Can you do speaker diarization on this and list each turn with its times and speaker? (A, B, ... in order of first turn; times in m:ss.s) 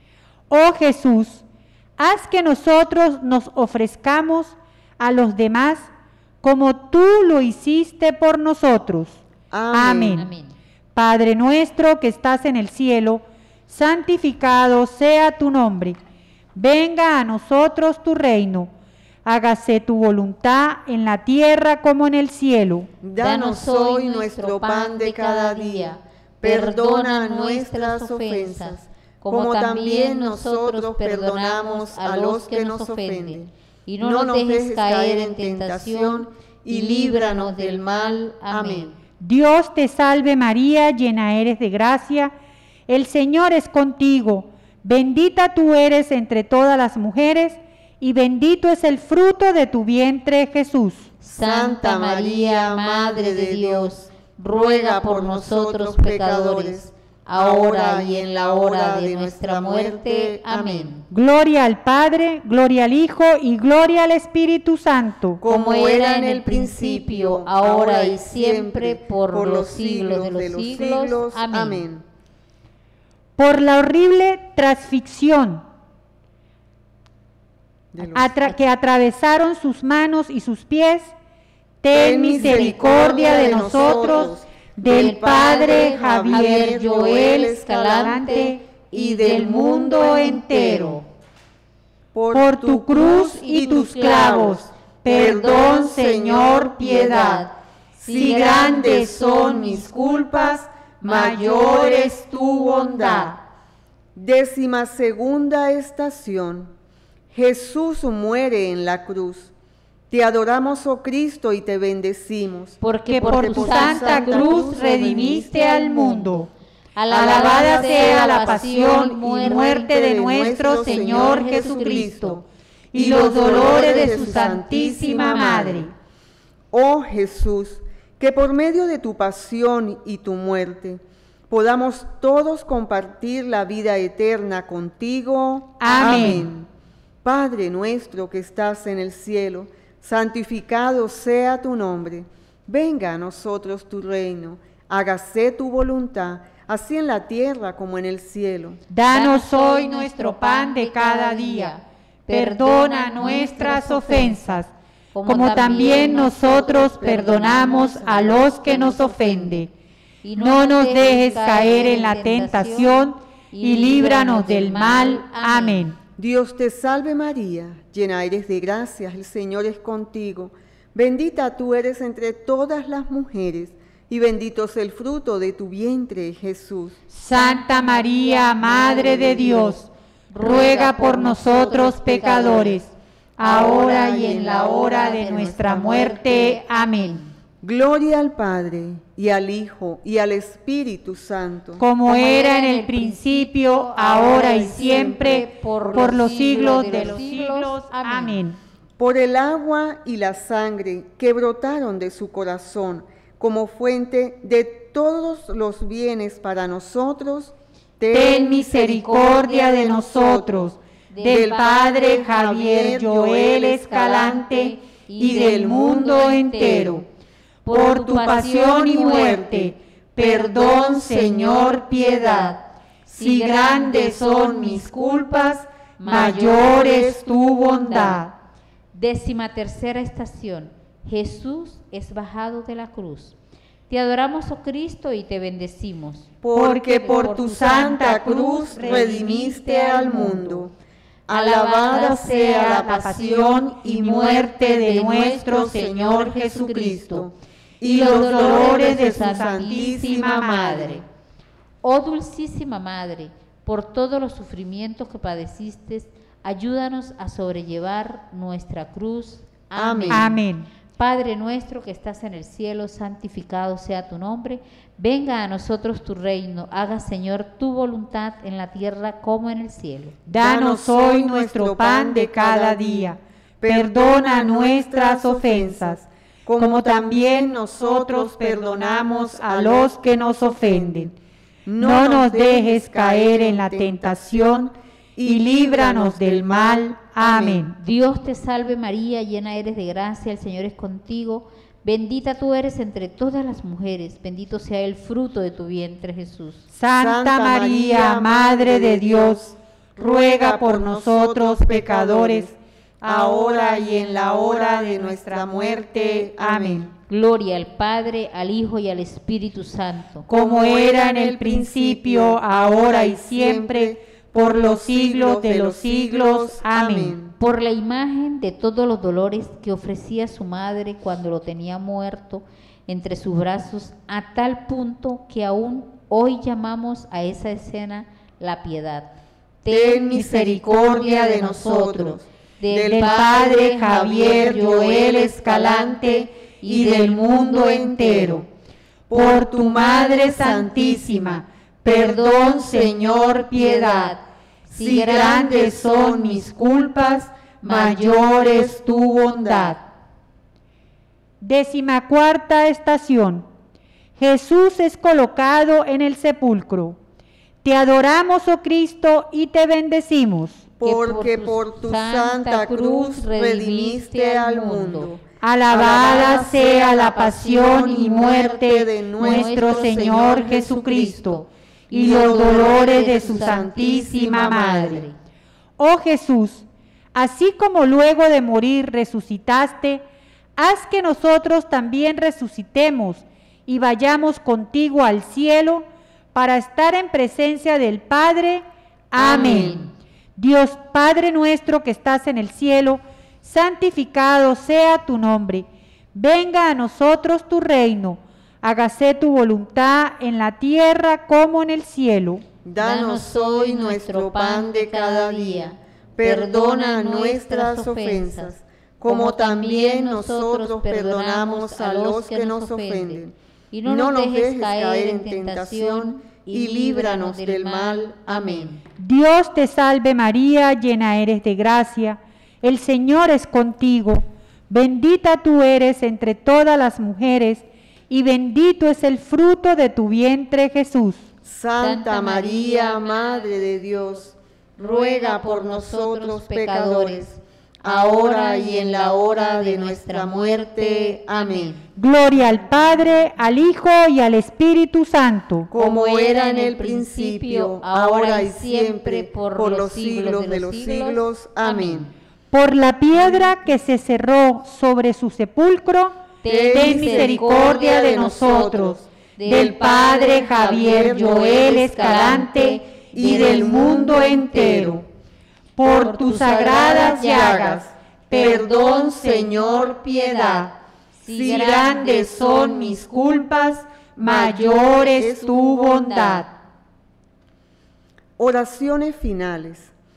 0:00.5-0:01.4 A
0:02.0-0:05.9 A
0:06.4-0:09.2 A
0:09.5-0:10.2 B
0:09.7-0:10.3 A
0:10.1-0:10.5 C
0:10.9-0:16.0 A
0:16.5-0:18.7 A
0:19.2-0:22.9 A
0:23.0-0:38.9 B
0:23.2-0:38.9 C
0:39.2-0:42.3 A
0:42.9-0:51.1 A
0:51.2-1:01.1 C
0:51.3-1:00.9 B
1:01.1-1:05.4 A
1:05.4-1:12.0 B
1:05.4-1:11.9 C
1:13.4-1:15.6 A
1:17.9-1:18.4 B
1:18.1-1:21.1 A
1:21.8-1:28.6 A
1:21.9-1:30.7 B
1:23.6-1:24.1 C
1:24.8-1:31.0 C
1:29.3-1:31.0 A
1:32.1-1:37.4 B
1:32.3-1:37.5 A
1:37.0-1:37.5 C
1:37.9-1:43.4 B
1:38.0-1:38.8 C
1:38.0-1:40.5 A
1:41.0-1:43.3 A
1:44.1-1:46.7 B
1:47.3-1:49.5 B
1:50.1-1:55.5 B
1:52.8-1:59.8 C
1:53.1-1:56.5 A
1:57.1-2:05.9 B
1:57.1-2:02.1 A
2:00.6-2:02.4 C
2:02.9-2:05.9 A
2:03.0-2:04.7 C
2:06.7-2:16.7 B
2:15.8-2:16.5 A
2:15.8-2:16.4 C
2:17.2-2:28.8 B
2:28.9-2:31.7 A
2:29.1-2:34.6 C
2:32.3-2:34.7 A
2:35.1-2:39.7 C
2:35.2-2:39.7 A
2:35.6-2:38.5 B
2:40.2-2:45.9 C
2:40.4-2:46.0 A
2:46.2-2:57.0 B
2:57.1-2:59.9 A
2:57.3-2:59.8 C
2:59.0-2:59.6 B
3:00.3-3:02.9 C
3:00.4-3:07.2 A
3:03.4-3:05.2 B
3:03.5-3:07.3 C
3:07.6-3:11.8 B
3:11.8-3:18.6 A
3:12.0-3:18.4 C
3:16.8-3:17.2 B
3:19.0-3:30.7 B
3:28.1-3:37.0 A
3:31.1-3:31.6 C
3:31.2-3:34.6 B
3:34.3-3:37.0 C
3:35.2-3:37.0 B
3:37.6-3:39.4 C
3:37.7-3:42.6 A
3:37.7-3:42.5 B
3:43.1-3:48.2 B
3:43.2-3:45.4 A
3:46.0-3:47.0 C
3:46.0-3:48.3 A
3:47.9-3:48.2 C
3:48.9-3:53.4 C
3:53.9-3:56.3 C
3:56.4-4:00.7 B
3:56.5-4:00.5 A
3:57.1-3:57.4 C
4:00.0-4:00.2 C
4:01.3-4:11.0 B
4:01.3-4:02.6 C
4:01.5-4:06.6 A
4:06.7-4:07.3 C
4:07.8-4:09.8 C
4:07.9-4:11.0 A
4:11.8-4:20.4 C
4:19.7-4:20.4 B
4:20.1-4:20.7 A
4:21.0-4:30.2 C
4:30.3-4:36.0 A
4:30.4-4:41.1 B
4:36.6-4:41.1 A
4:41.6-4:47.7 B
4:41.8-4:44.7 A
4:45.2-4:47.8 A
4:47.8-4:56.7 C
4:56.7-4:59.4 A
4:57.0-5:06.9 B
5:00.0-5:06.9 A
5:07.1-5:10.3 C
5:10.3-5:17.2 A
5:10.3-5:17.3 B
5:17.4-5:30.2 C
5:29.7-5:38.5 B
5:30.1-5:31.3 A
5:31.2-5:35.0 C
5:32.8-5:38.4 A
5:39.1-5:44.1 B
5:39.1-5:44.2 A
5:43.8-5:44.2 C
5:44.7-5:49.8 B
5:44.7-5:46.7 A
5:47.6-5:48.8 A
5:51.4-5:53.4 A
5:54.2-5:57.0 A
5:57.6-6:00.6 A
6:00.8-6:11.0 B
6:00.8-6:05.1 C
6:05.4-6:15.0 A
6:09.2-6:14.0 C
6:11.9-6:15.0 B
6:14.6-6:15.1 C
6:15.8-6:20.0 A
6:20.6-6:29.8 A
6:29.2-6:29.8 B
6:29.2-6:29.9 C
6:30.4-6:42.4 A
6:42.6-6:53.3 B
6:42.8-6:58.8 C
6:53.8-6:58.7 B
6:59.0-7:11.2 A
7:11.4-7:21.8 B
7:11.8-7:13.6 C
7:14.8-7:21.8 C
7:22.0-7:25.7 A
7:25.7-7:32.1 B
7:25.7-7:32.1 C
7:32.5-7:45.0 A
7:36.4-7:37.9 C
7:36.5-7:42.5 B
7:39.4-7:44.0 C
7:43.1-7:45.0 B
7:45.8-7:49.5 A
7:45.8-7:50.7 B
7:50.3-7:50.6 A
7:51.2-7:52.2 C
7:51.2-7:53.2 B
7:51.3-7:56.5 A
7:54.2-7:56.2 B
7:55.4-7:56.4 C
7:58.4-7:59.9 B